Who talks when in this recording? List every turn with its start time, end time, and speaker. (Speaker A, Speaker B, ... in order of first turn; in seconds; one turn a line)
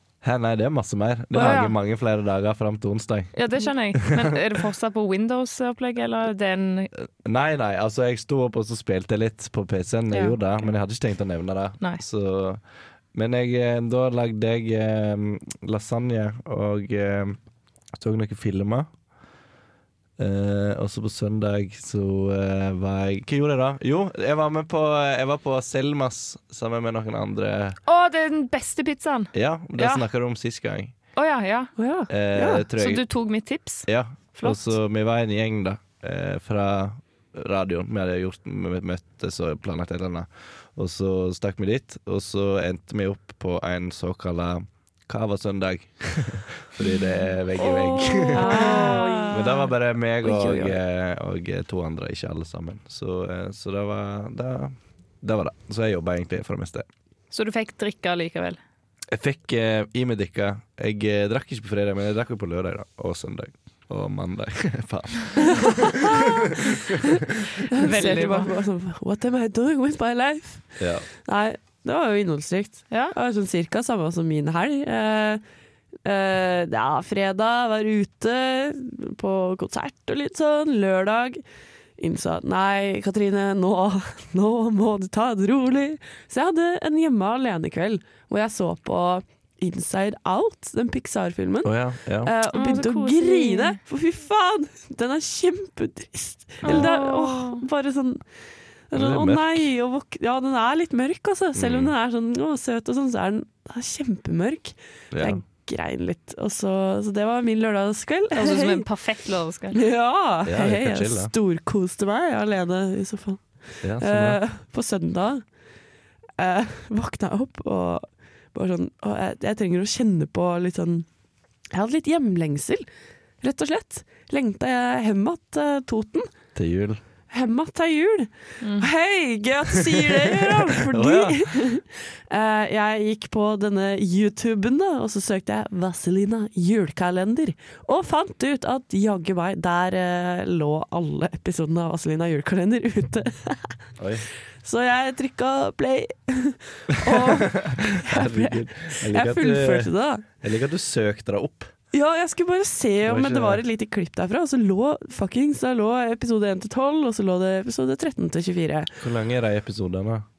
Speaker A: 0.2-3.3
Speaker B: 1.3-1.7
Speaker C: 1.3-1.6
Speaker B: 3.3-6.9
Speaker A: 3.9-4.2
Speaker A: 7.0-12.6
Speaker B: 10.1-10.4
Speaker A: 13.1-17.4
Speaker A: 17.9-18.9
Speaker A: 20.2-27.8
Speaker B: 27.9-30.1
Speaker A: 29.3-30.9
Speaker B: 31.1-31.7
Speaker C: 31.8-32.6
Speaker A: 32.1-33.1
Speaker B: 32.8-34.8
Speaker A: 33.9-56.9
Speaker C: 47.6-49.6
Speaker B: 48.3-49.7
Speaker C: 50.2-50.8
Speaker B: 57.3-58.6
Speaker A: 59.1-67.2
Speaker C: 65.9-66.4
Speaker C: 67.6-75.4
Speaker B: 67.8-68.5
Speaker A: 70.8-71.0
Speaker C: 76.0-81.4
Speaker C: 82.0-98.2
Speaker A: 91.6-92.3
Speaker B: 92.5-93.8
Speaker B: 96.6-97.6
Speaker C: 98.9-108.8
Speaker A: 98.9-99.7
Speaker A: 101.5-101.9
Speaker A: 105.1-105.4
Speaker B: 108.3-109.8
Speaker C: 109.7-115.5
Speaker A: 110.4-111.3
Speaker A: 113.8-114.4
Speaker C: 116.4-121.0
Speaker C: 121.7-122.8
Speaker C: 123.4-126.3
Speaker A: 126.5-127.0
Speaker C: 127.3-143.8
Speaker B: 128.6-128.9
Speaker A: 130.0-131.7
Speaker A: 144.0-144.2
Speaker C: 144.6-150.2
Speaker A: 147.0-151.7
Speaker C: 151.9-158.9
Speaker A: 153.0-153.6
Speaker A: 159.0-160.2